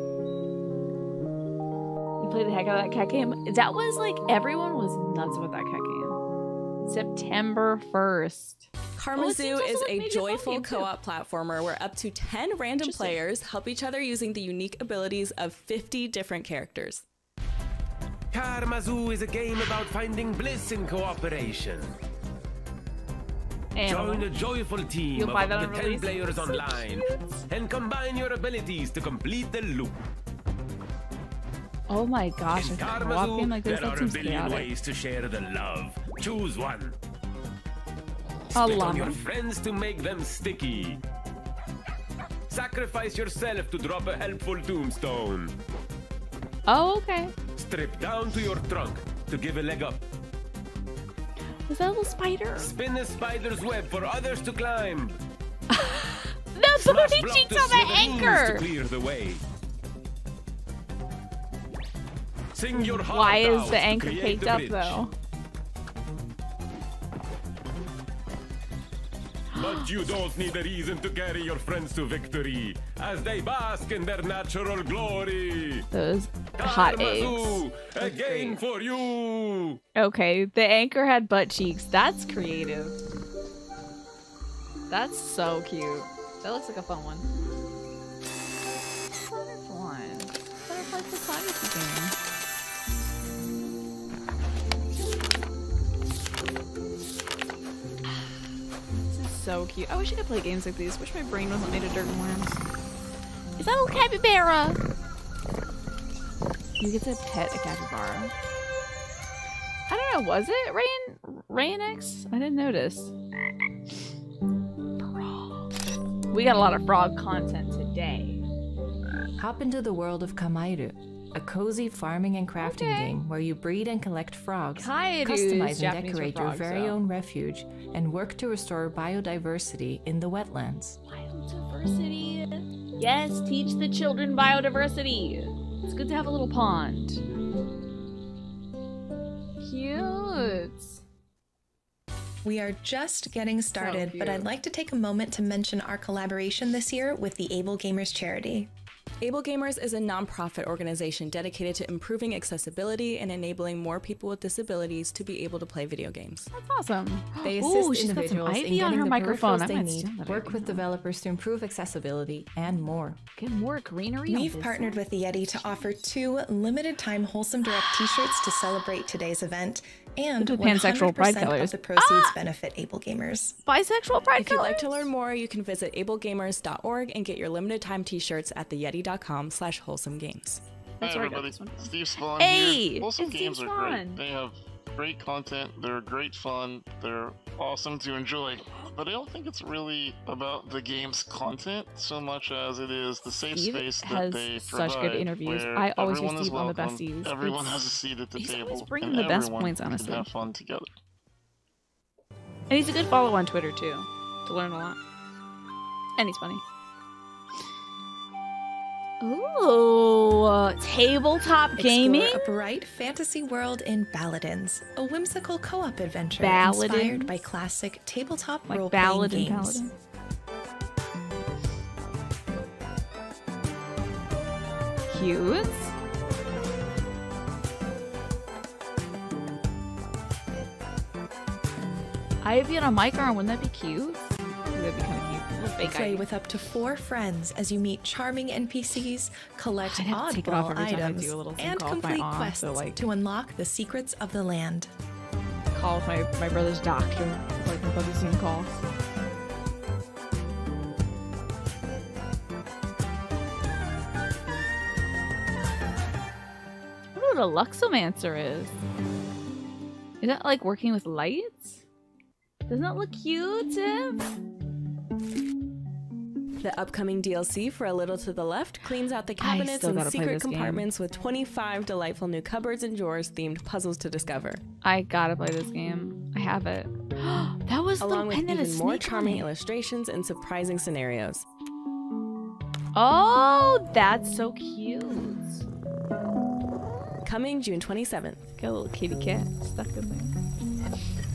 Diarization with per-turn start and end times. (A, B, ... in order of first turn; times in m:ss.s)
0:02.2-0:06.2 A
0:06.8-0:10.9 A
0:09.0-0:17.0 B
0:12.8-0:13.2 A
0:18.3-0:22.0 C
0:23.8-0:24.3 A
0:23.9-0:30.0 C
0:25.2-0:27.4 A
0:31.9-0:34.7 A
0:32.6-0:37.0 C
0:38.5-0:39.2 A
0:38.5-0:41.0 C
0:42.5-0:45.5 C
0:46.7-0:47.3 A
0:47.6-0:50.0 C
0:51.7-0:52.7 A
0:52.6-0:55.2 C
0:55.7-0:58.6 A
0:56.8-0:59.4 C
1:02.5-1:05.0 C
1:02.9-1:05.1 A
1:09.5-1:09.9 A
1:09.6-1:15.8 C
1:15.9-1:18.5 A
1:16.6-1:19.8 C
1:20.0-1:23.0 A
1:24.9-1:27.3 A
1:29.1-1:32.2 A
1:38.0-1:38.5 A
1:39.1-1:42.6 A
1:43.6-1:44.8 A
1:46.8-1:48.3 A
1:49.9-1:53.1 A
1:55.0-1:55.7 A
1:56.3-1:58.4 A
1:59.4-2:11.0 D
2:02.6-2:03.2 A
2:04.8-2:07.0 A
2:11.0-2:17.2 A
2:19.6-2:21.0 A
2:22.4-2:28.7 E
2:23.8-2:24.5 A
2:29.2-2:36.5 B
2:36.5-2:40.8 A
2:37.4-2:43.2 D
2:43.4-2:45.7 A
2:44.3-2:53.6 E
2:50.4-2:52.4 A
2:53.7-2:55.0 A
2:54.4-3:00.6 B
3:01.0-3:04.2 A
3:01.0-3:20.9 F
3:13.5-3:17.8 A
3:18.4-3:20.3 A
3:22.7-3:25.0 A
3:26.2-3:26.6 A
3:29.2-3:32.4 A
3:31.8-3:39.9 E
3:36.4-3:37.4 A
3:38.7-3:39.9 A
3:45.1-3:45.9 A
3:52.4-3:54.2 A
3:54.7-3:56.3 A
3:55.8-4:04.9 E
3:59.8-4:03.0 A
4:05.7-4:08.8 A
4:17.2-4:18.8 A
4:20.2-4:21.8 A
4:22.7-4:24.3 A
4:26.6-4:34.6 B
4:29.4-4:30.9 A
4:34.8-4:39.5 A
4:38.0-4:41.4 B
4:43.0-4:45.7 A
4:47.2-4:48.5 B
4:48.6-4:50.4 A